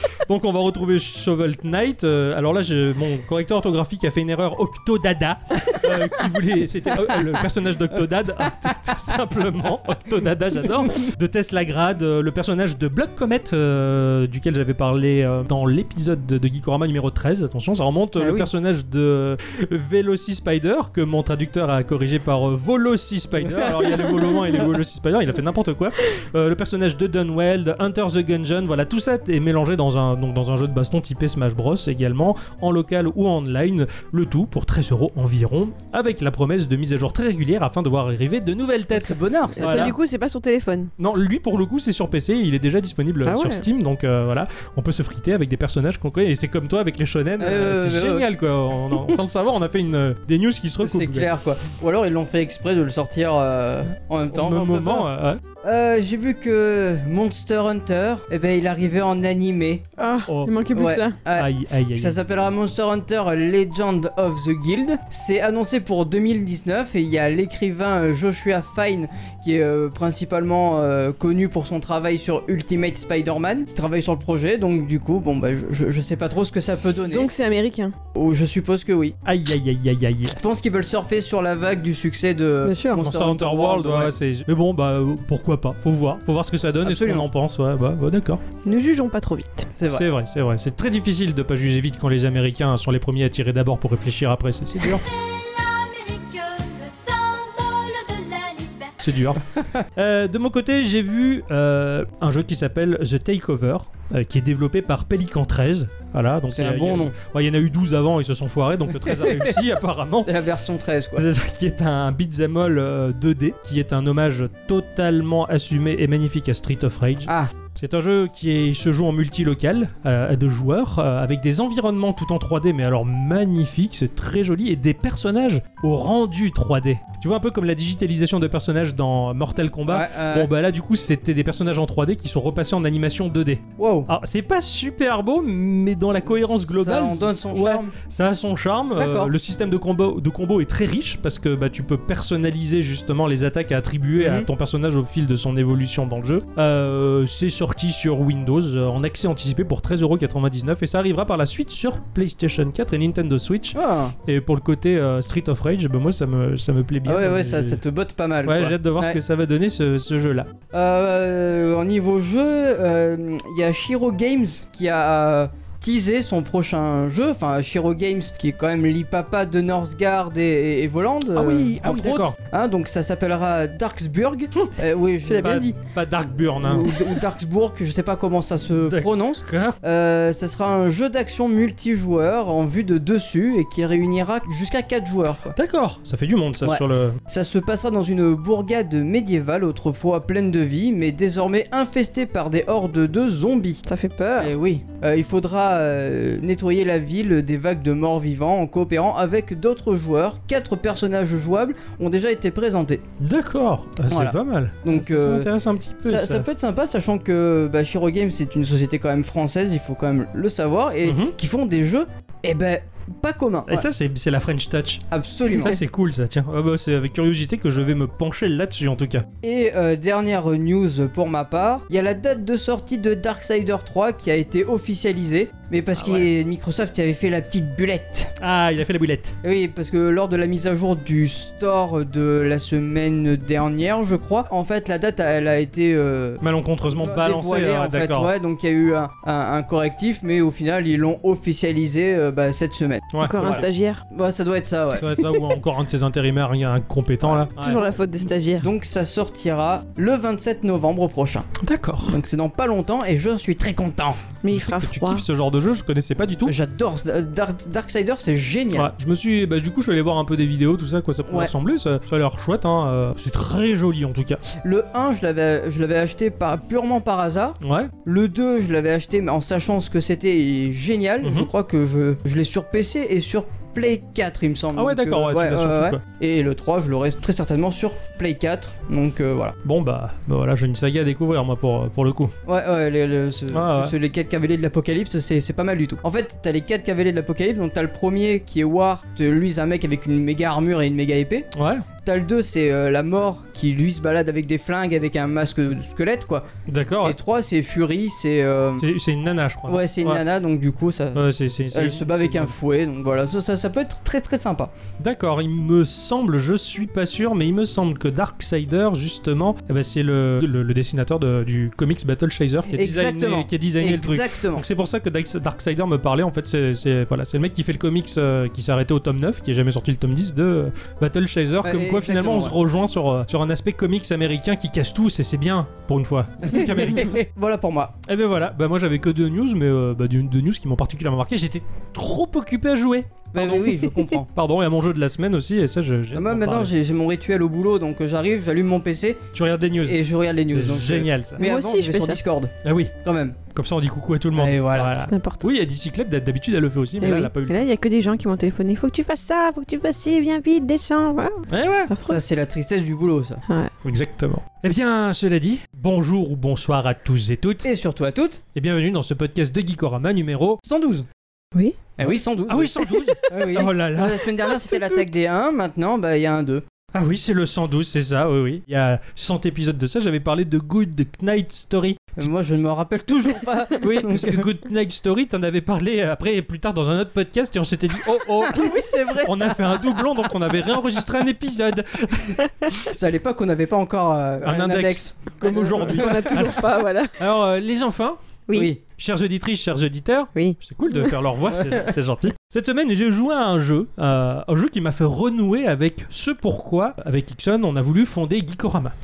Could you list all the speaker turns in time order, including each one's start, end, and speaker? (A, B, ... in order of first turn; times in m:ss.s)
0:00.3-0:40.0 A
0:18.2-0:18.5 B
0:38.9-0:40.0 C
0:39.6-0:40.9 B
0:41.0-0:51.3 A
0:43.2-0:43.7 B
0:47.4-0:48.3 C
0:50.8-0:55.1 C
0:54.3-0:55.4 A
0:55.6-0:59.8 C
1:00.0-1:01.2 B
1:00.3-1:00.6 A
1:00.7-1:17.3 C
1:01.3-1:02.2 A
1:17.0-1:17.9 B
1:18.1-1:19.2 C
1:19.2-1:20.4 A
1:20.3-1:24.1 C
1:22.6-1:23.0 B
1:23.0-1:28.4 A
1:26.8-1:27.3 C
1:28.6-1:29.7 B
1:29.8-1:30.0 C
1:29.9-1:35.0 A
1:35.0-1:39.0 D
1:39.0-1:50.4 A
1:39.5-1:39.8 C
1:46.5-1:47.2 C
1:49.0-1:49.5 C
1:50.2-1:51.2 C
1:51.2-2:37.8 A
1:57.3-1:57.5 C
2:09.9-2:10.5 C
2:13.8-2:14.1 C
2:16.4-2:18.0 C
2:19.0-2:19.3 C
2:24.2-2:24.5 C
2:33.7-2:34.2 C
2:37.0-2:39.2 C
2:38.4-2:40.5 A
2:40.7-2:55.6 C
2:51.3-2:52.4 A
2:55.3-2:55.8 B
2:55.4-2:57.2 A
2:56.6-3:05.6 C
2:58.9-2:59.8 A
3:05.5-3:07.2 A
3:06.6-3:13.8 C
3:13.8-3:14.5 B
3:14.4-3:23.0 C
3:23.2-3:26.5 A
3:24.1-3:25.5 C
3:26.0-3:33.9 C
3:31.0-3:31.4 A
3:33.7-3:39.3 A
3:35.1-3:35.8 C
3:39.4-3:48.4 C
3:46.0-3:46.3 A
3:48.4-3:49.4 A
3:49.4-3:56.4 C
3:56.4-3:58.3 A
3:57.0-4:05.2 C
4:03.1-4:03.7 A
4:03.2-4:04.0 B
4:04.9-4:07.9 A
4:07.2-4:07.8 C
4:07.6-4:08.7 B
4:08.6-4:11.5 C
4:11.6-4:12.2 A
4:12.1-4:14.2 C
4:14.4-4:15.2 B
4:14.5-4:16.6 A
4:16.4-4:18.9 C
4:18.7-4:24.4 A
4:21.3-4:21.5 C
4:24.5-4:39.6 C
4:27.6-4:27.9 A
4:31.2-4:31.5 A
4:34.8-4:36.0 A
4:39.6-4:42.3 A
4:42.4-4:51.5 C
4:43.5-4:44.0 A
4:51.5-4:51.9 A
4:52.0-4:56.5 C
4:56.7-4:57.2 A
4:57.0-4:58.9 C
4:58.8-5:00.2 A
4:59.7-5:04.7 C
5:01.2-5:02.5 A
5:05.0-5:27.2 A
5:12.7-5:14.7 C
5:21.6-5:22.6 C
5:26.4-5:27.9 C
5:28.0-5:36.7 A
5:33.3-5:34.3 C
5:36.1-5:39.2 C
5:39.3-5:41.4 A
5:39.8-5:43.4 C
5:41.4-5:42.2 B
5:42.6-5:43.0 A
5:43.5-5:47.7 A
5:44.4-5:45.0 C
5:45.0-5:45.5 B
5:47.0-5:52.2 B
5:51.5-5:51.9 A
5:52.0-5:53.4 C
5:53.8-5:57.7 A
5:57.6-5:58.4 C
5:58.5-6:00.6 A
6:00.7-6:01.1 C
6:02.0-6:06.6 C
6:02.0-6:04.5 A
6:06.9-6:12.3 A
6:12.2-6:14.5 C
6:13.8-6:22.5 A
6:18.4-6:20.0 C
6:22.8-6:26.5 C
6:24.4-6:28.2 A
6:25.6-6:27.2 B
6:28.5-6:28.8 C
6:28.9-6:39.0 A
6:30.4-6:31.2 B
6:31.5-6:31.9 C